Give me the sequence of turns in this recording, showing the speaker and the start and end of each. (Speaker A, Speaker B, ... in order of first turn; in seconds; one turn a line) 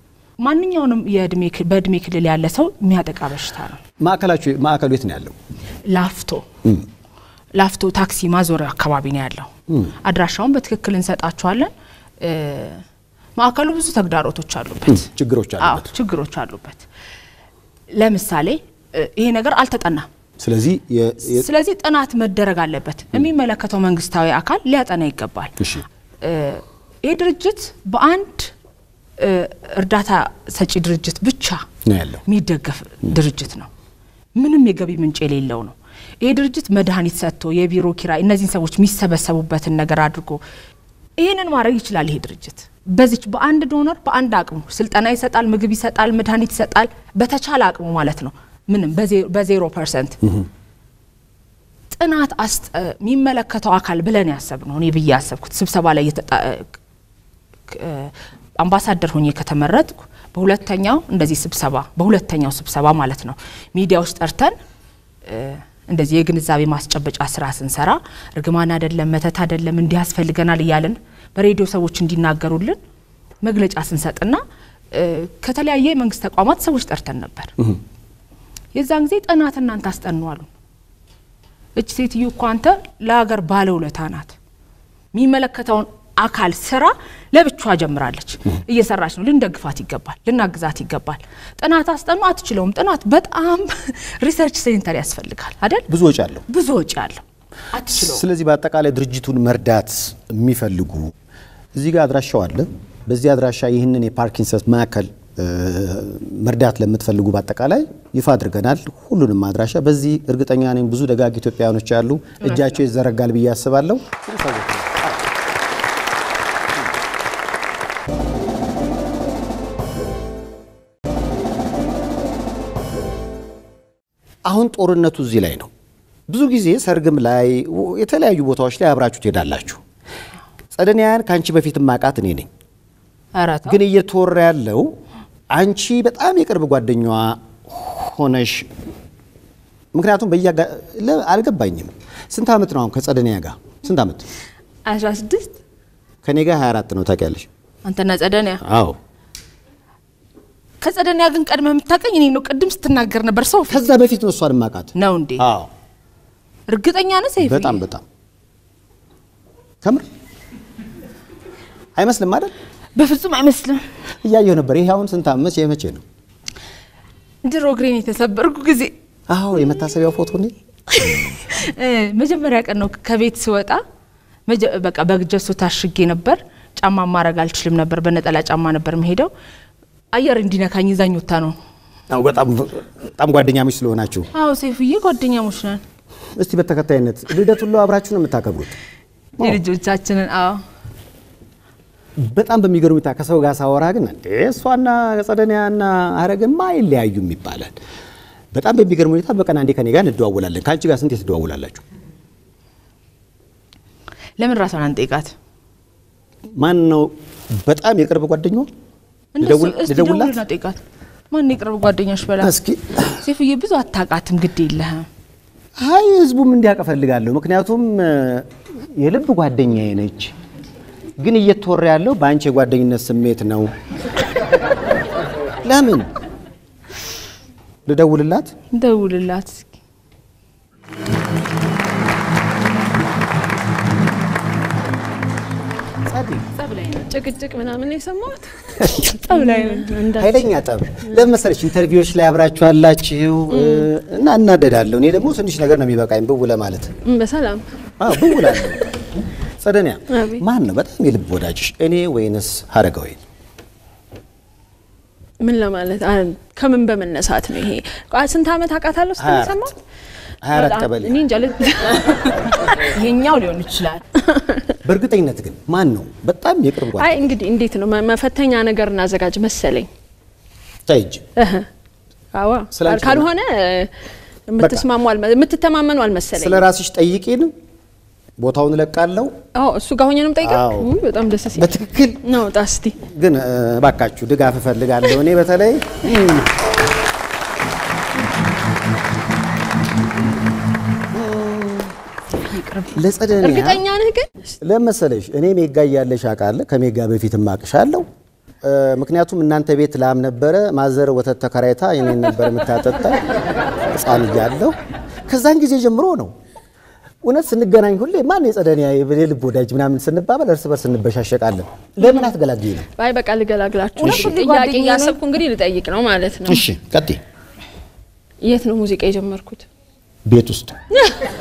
Speaker A: 0.4-3.8
Speaker B: 4.0-5.3
Speaker A: 5.9-6.5
Speaker A: 7.5-12.8
Speaker A: 13.4-15.1
Speaker B: 14.8-15.9
Speaker A: 15.6-16.8
Speaker A: 17.9-20.1
Speaker B: 20.4-21.4
Speaker A: 21.2-25.6
Speaker B: 25.6-25.8
Speaker A: 26.2-28.5
Speaker A: 29.2-31.6
Speaker B: 31.9-32.2
Speaker A: 32.2-33.7
Speaker A: 34.4-40.4
Speaker A: 41.2-50.2
Speaker A: 51.9-56.7
Speaker A: 57.7-64.5
Speaker A: 65.2-72.8
Speaker A: 73.4-74.4
Speaker A: 74.9-77.5
Speaker A: 78.7-80.5
Speaker A: 81.8-84.3
Speaker A: 85.1-95.9
Speaker B: 95.9-96.4
Speaker A: 96.5-98.2
Speaker B: 97.9-101.1
Speaker B: 101.7-115.2
Speaker A: 112.4-112.7
Speaker B: 124.4-125.7
Speaker B: 126.3-129.8
Speaker B: 130.7-132.5
Speaker A: 133.3-133.8
Speaker B: 133.7-134.9
Speaker B: 135.5-138.7
Speaker B: 139.9-144.2
Speaker A: 144.8-145.6
Speaker B: 146.2-147.5
Speaker A: 147.8-148.6
Speaker B: 148.6-149.0
Speaker A: 150.8-153.9
Speaker B: 153.7-155.7
Speaker A: 154.9-155.4
Speaker A: 156.7-157.8
Speaker B: 157.4-158.0
Speaker B: 161.9-162.5
Speaker A: 162.9-163.9
Speaker B: 164.2-166.0
Speaker A: 167.4-168.9
Speaker B: 169.3-171.4
Speaker A: 170.9-173.8
Speaker A: 174.5-179.3
Speaker A: 180.1-181.6
Speaker B: 182.1-184.3
Speaker A: 184.3-185.8
Speaker B: 186.4-188.7
Speaker A: 189.4-190.6
Speaker B: 192.2-197.8
Speaker B: 198.5-201.8
Speaker A: 204.4-205.3
Speaker B: 206.6-208.7
Speaker A: 209.3-210.8
Speaker B: 209.4-210.4
Speaker A: 211.3-212.5
Speaker B: 212.4-213.1
Speaker A: 213.1-215.1
Speaker B: 215.8-220.3
Speaker B: 221.2-223.7
Speaker B: 225.6-226.1
Speaker B: 227.8-228.5
Speaker A: 228.7-229.7
Speaker B: 236.0-236.5
Speaker A: 236.6-237.0
Speaker C: 237.0-238.7
Speaker B: 238.8-239.1
Speaker A: 238.9-239.9
Speaker C: 239.3-240.5
Speaker B: 240.2-246.9
Speaker C: 243.5-243.9
Speaker C: 247.0-248.7
Speaker B: 248.0-248.9
Speaker B: 249.6-253.2
Speaker C: 250.1-250.4
Speaker C: 255.4-259.7
Speaker B: 259.2-259.6
Speaker B: 260.4-261.2
Speaker C: 260.5-262.8
Speaker A: 262.7-264.2
Speaker C: 264.3-264.7
Speaker B: 264.8-267.2
Speaker C: 266.9-269.9
Speaker B: 270.9-271.2
Speaker C: 271.4-271.7
Speaker C: 272.3-273.9
Speaker B: 272.7-273.3
Speaker C: 274.5-276.6
Speaker B: 274.6-274.9
Speaker B: 276.4-277.5
Speaker B: 278.4-279.3
Speaker C: 279.5-283.0
Speaker B: 280.4-280.9
Speaker B: 281.5-282.2
Speaker B: 283.0-286.5
Speaker B: 291.1-291.9
Speaker B: 292.9-293.8
Speaker C: 293.4-294.5
Speaker B: 294.6-298.1
Speaker B: 298.6-304.8
Speaker B: 305.3-306.3
Speaker B: 307.2-312.9
Speaker C: 312.0-312.3
Speaker C: 312.9-316.6
Speaker A: 313.9-315.2
Speaker B: 314.0-314.3
Speaker B: 316.4-317.2
Speaker C: 318.4-319.6
Speaker B: 320.2-320.8
Speaker C: 320.9-321.2